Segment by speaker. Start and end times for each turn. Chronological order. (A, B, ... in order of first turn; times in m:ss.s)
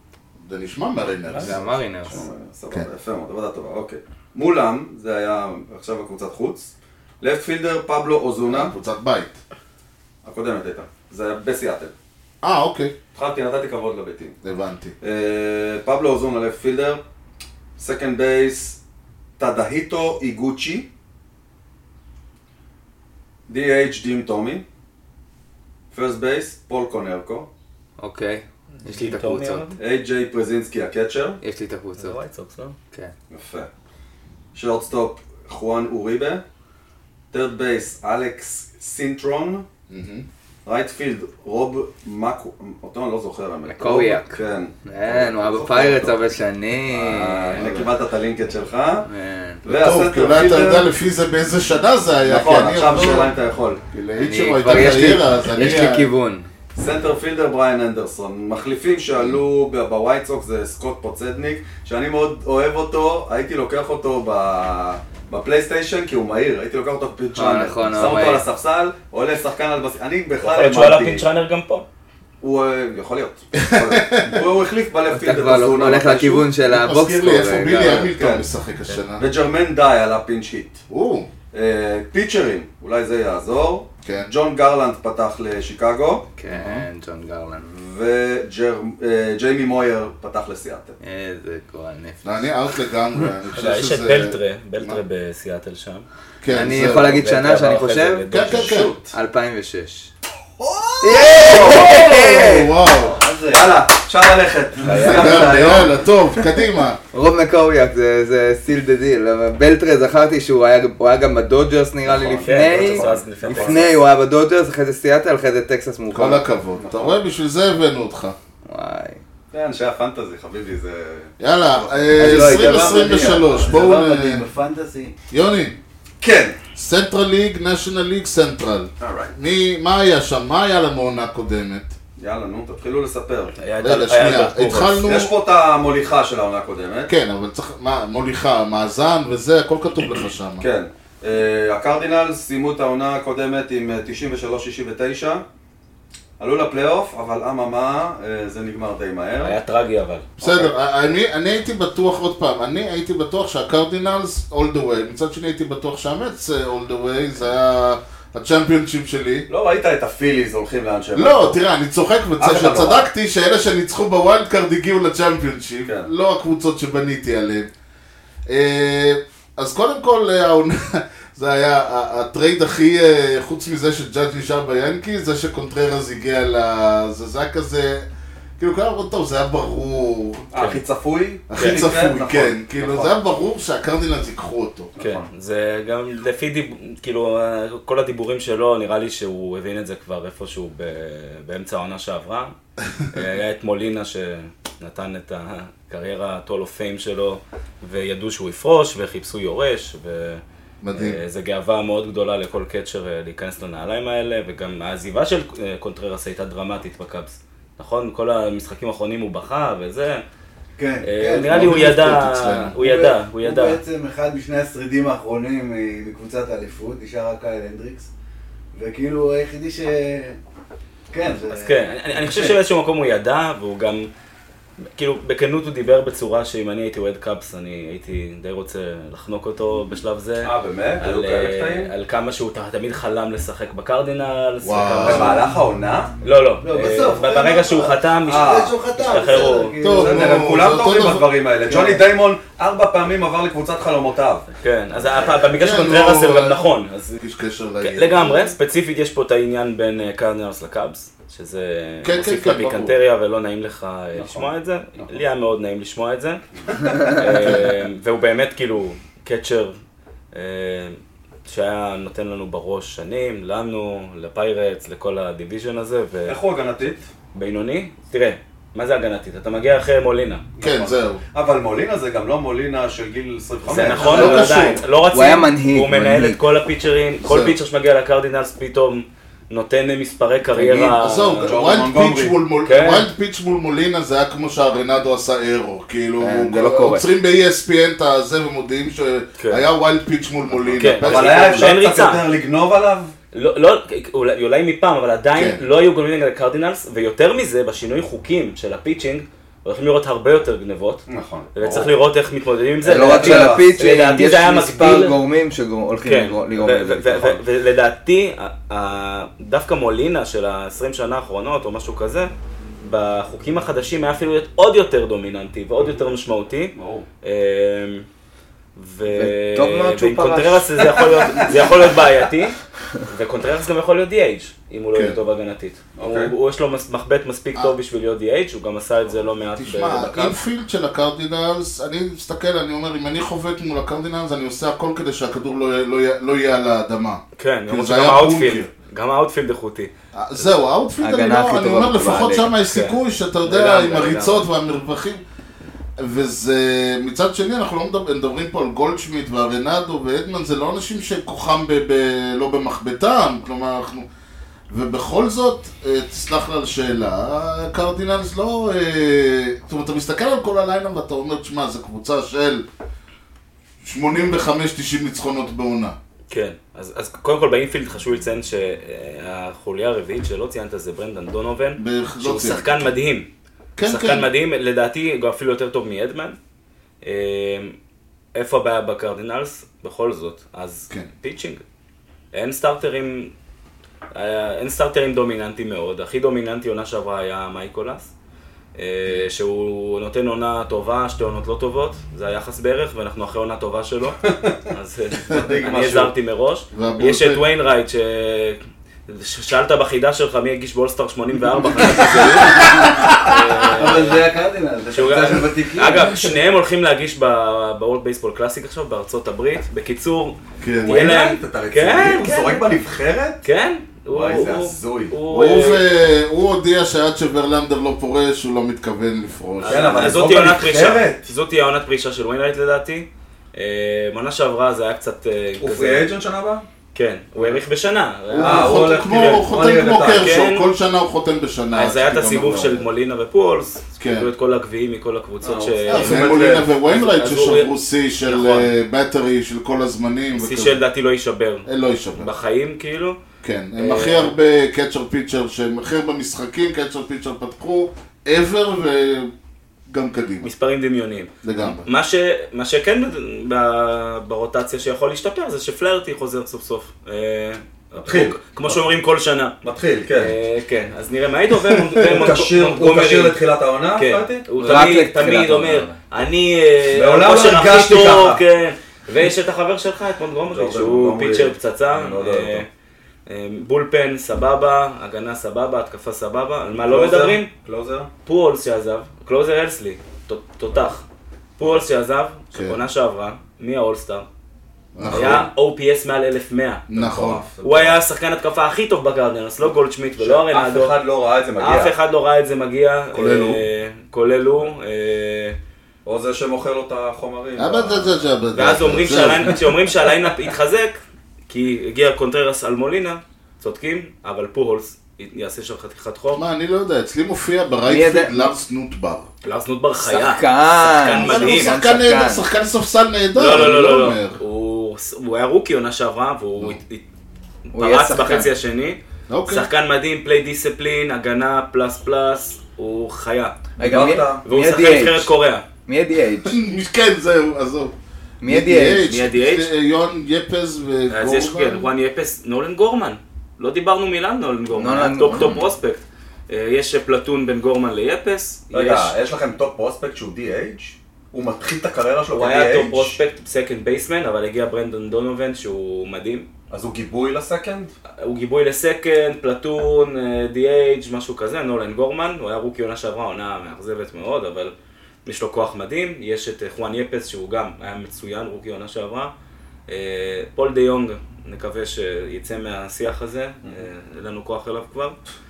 0:00.4-0:01.7 A
0:01.2-0:08.7 B
0:01.4-0:02.2 C
0:08.5-0:09.4 A
0:10.2-0:11.9 B
0:12.4-0:12.9 A
0:13.1-0:14.4 B
0:14.4-0:14.9 A
0:15.0-0:17.0 B
0:17.8-0:18.8 B
0:19.4-0:20.9 B
0:23.5-0:24.6 B
0:25.9-0:27.5 B
0:28.0-0:29.7 C
0:28.7-0:29.8 D
0:29.8-0:31.4 B
0:31.4-0:32.2 C
0:32.0-0:32.8 D
0:33.3-0:33.7 B
0:34.5-0:36.4 B
0:37.3-0:39.6 B
0:39.9-0:40.2 A
0:40.6-0:46.2 B
0:43.7-0:47.9 C
0:46.9-0:49.1 B
0:47.6-0:47.9 A
0:49.1-0:49.6 C
0:49.6-0:50.9 B
0:49.7-0:53.3 A
0:52.2-0:53.8 B
0:53.9-0:56.1 A
0:54.2-0:56.5 C
0:56.7-1:11.2 B
1:07.3-1:08.4 C
1:10.4-1:11.9 D
1:12.4-1:16.5 B
1:13.6-1:14.4 A
1:15.1-1:18.1 C
1:16.6-1:19.3 A
1:17.7-1:18.5 B
1:19.2-1:20.8 B
1:20.9-1:21.3 A
1:21.5-1:26.3 B
1:24.0-1:24.3 A
1:26.4-1:27.7 C
1:26.4-1:26.9 A
1:27.6-1:31.0 B
1:31.0-1:32.5 C
1:32.2-1:35.0 A
1:33.5-1:36.0 D
1:36.4-1:37.3 A
1:36.5-1:40.1 C
1:36.6-1:39.0 D
1:38.3-1:39.0 A
1:40.6-1:42.1 B
1:41.0-1:42.8 C
1:41.4-1:43.2 A
1:43.0-1:43.8 E
1:43.5-1:46.0 B
1:44.9-1:47.0 A
1:45.0-1:45.4 E
1:47.1-1:56.4 C
1:52.0-1:53.9 B
1:52.4-1:53.9 D
1:56.1-1:58.4 A
1:56.8-1:57.2 B
1:58.6-1:59.2 C
1:59.5-2:03.5 B
2:01.4-2:04.4 A
2:02.2-2:03.4 C
2:02.8-2:05.1 E
2:05.3-2:05.7 A
2:06.2-2:06.6 B
2:06.7-2:11.9 A
2:09.0-2:09.3 B
2:12.2-2:13.5 B
2:13.6-2:15.0 D
2:13.8-2:15.3 A
2:15.0-2:17.1 B
2:17.1-2:20.6 A
2:20.6-2:25.4 B
2:26.4-2:29.5 B
2:29.4-2:30.3 D
2:30.4-2:30.7 B
2:30.4-2:39.5 A
2:39.5-2:41.6 B
2:41.1-2:47.7 A
2:42.4-2:43.1 B
2:48.5-2:58.0 A
2:58.6-3:00.5 A
3:00.5-3:03.2 B
3:01.5-3:04.9 A
3:01.5-3:01.8 D
3:05.0-3:05.3 B
3:05.0-3:12.5 D
3:13.1-3:20.4 D
3:20.8-3:21.2 A
3:20.9-3:30.2 D
3:30.8-3:32.0 E
3:31.0-3:33.8 D
3:31.5-3:32.7 A
3:32.7-3:38.1 E
3:38.7-3:40.4 E
3:41.1-3:42.5 E
3:41.5-3:44.1 D
3:44.9-3:55.4 D
3:50.4-3:51.9 B
3:54.6-3:55.4 A
3:55.0-3:56.1 B
3:56.2-3:59.8 D
3:56.6-4:00.5 E
3:58.3-3:58.8 B
3:59.8-4:01.3 A
3:59.8-4:04.5 B
4:01.6-4:02.0 E
4:04.6-4:07.2 D
4:05.5-4:06.7 A
4:07.2-4:08.6 A
4:07.8-4:16.4 D
4:12.0-4:12.9 A
4:14.1-4:15.2 B
4:16.7-4:17.0 B
4:17.1-4:19.8 D
4:17.4-4:17.7 A
4:20.3-4:26.4 D
4:26.3-4:27.1 B
4:27.3-4:30.4 D
4:30.6-4:34.8 B
4:30.6-4:31.2 A
4:33.6-4:41.5 D
4:33.9-4:34.8 A
4:35.1-4:36.4 C
4:37.2-4:37.5 A
4:40.5-4:51.8 A
4:41.4-4:42.4 B
4:42.6-4:43.0 D
4:46.2-4:47.0 C
4:49.4-4:49.6 D
4:50.5-4:53.1 B
4:50.8-4:52.2 D
4:53.3-5:05.2 D
4:55.3-4:55.6 A
5:01.1-5:01.9 B
5:02.8-5:07.3 C
5:03.0-5:03.7 B
5:06.0-5:12.3 D
5:12.8-5:18.0 D
5:16.7-5:17.0 B
5:18.8-5:30.4 D
5:19.1-5:21.5 C
5:24.9-5:25.2 A
5:26.0-5:26.3 B
5:29.5-5:38.7 A
5:37.4-5:39.9 D
5:40.1-5:45.2 A
5:41.0-5:42.5 C
5:42.6-5:44.5 D
5:46.0-5:54.0 A
5:54.7-6:02.6 A
6:03.8-6:05.9 A
6:06.3-6:13.3 D
6:11.8-6:12.9 A
6:13.8-6:14.3 A
6:13.8-6:16.4 D
6:17.0-6:17.8 D
6:18.3-6:21.6 D
6:22.3-6:23.3 D
6:24.1-6:28.1 D
6:28.8-6:44.3 D
6:34.2-6:34.6 B
6:35.3-6:36.1 B
6:36.7-6:37.4 A
6:42.5-6:42.9 E
6:42.7-6:43.4 A
6:43.7-6:46.3 E
6:44.9-6:52.7 D
6:50.6-6:51.0 A
6:50.8-6:53.4 B
6:53.4-6:55.8 D
6:54.1-6:55.1 B
6:55.3-7:00.1 A
6:59.6-7:06.1 D
6:59.6-7:01.3 B
7:05.6-7:06.6 B
7:06.9-7:09.5 D
7:08.3-7:12.9 A
7:08.4-7:10.3 B
7:10.1-7:10.7 D
7:11.7-7:18.7 D
7:14.0-7:14.3 A
7:15.4-7:16.7 B
7:15.9-7:20.8 A
7:20.3-7:23.2 D
7:21.6-7:22.3 A
7:23.4-7:29.3 A
7:23.8-7:24.3 D
7:29.9-7:30.5 A
7:30.4-7:39.5 D
7:31.4-7:31.8 A
7:38.0-7:38.8 B
7:39.6-7:40.3 B
7:40.1-7:43.4 D
7:42.0-7:44.4 B
7:44.0-7:52.7 D
7:44.6-7:46.0 C
7:46.9-7:48.4 B
7:50.5-7:52.6 B
7:53.2-7:57.5 D
7:56.8-7:58.1 B
7:58.2-8:01.0 D
8:01.6-8:04.3 D
8:04.9-8:05.5 A
8:05.0-8:06.9 D
8:06.9-8:07.4 A
8:06.9-8:08.0 B
8:07.6-8:11.0 D
8:10.2-8:12.0 B
8:11.6-8:15.6 D
8:13.1-8:13.6 A
8:16.0-8:18.2 B
8:17.6-8:19.6 A
8:18.5-8:26.4 D
8:26.3-8:29.3 A
8:27.8-8:28.5 C
8:29.4-8:31.7 D
8:30.0-8:32.4 C
8:31.1-8:34.4 A
8:33.3-8:37.0 D
8:37.7-8:43.6 D
8:37.7-8:38.5 C
8:39.3-8:39.7 A
8:43.8-8:45.3 C
8:43.8-8:44.4 B
8:44.4-8:45.6 D
8:45.9-8:46.6 C
8:46.4-8:47.9 A
8:48.4-8:49.0 C
8:48.4-8:51.9 A
8:49.0-8:49.7 D
8:51.1-8:59.1 D
8:54.7-8:55.6 C
8:58.7-9:03.2 B
9:02.3-9:06.5 D
9:06.7-9:07.9 B
9:08.2-9:14.7 D
9:15.2-9:19.3 D
9:19.9-9:25.2 D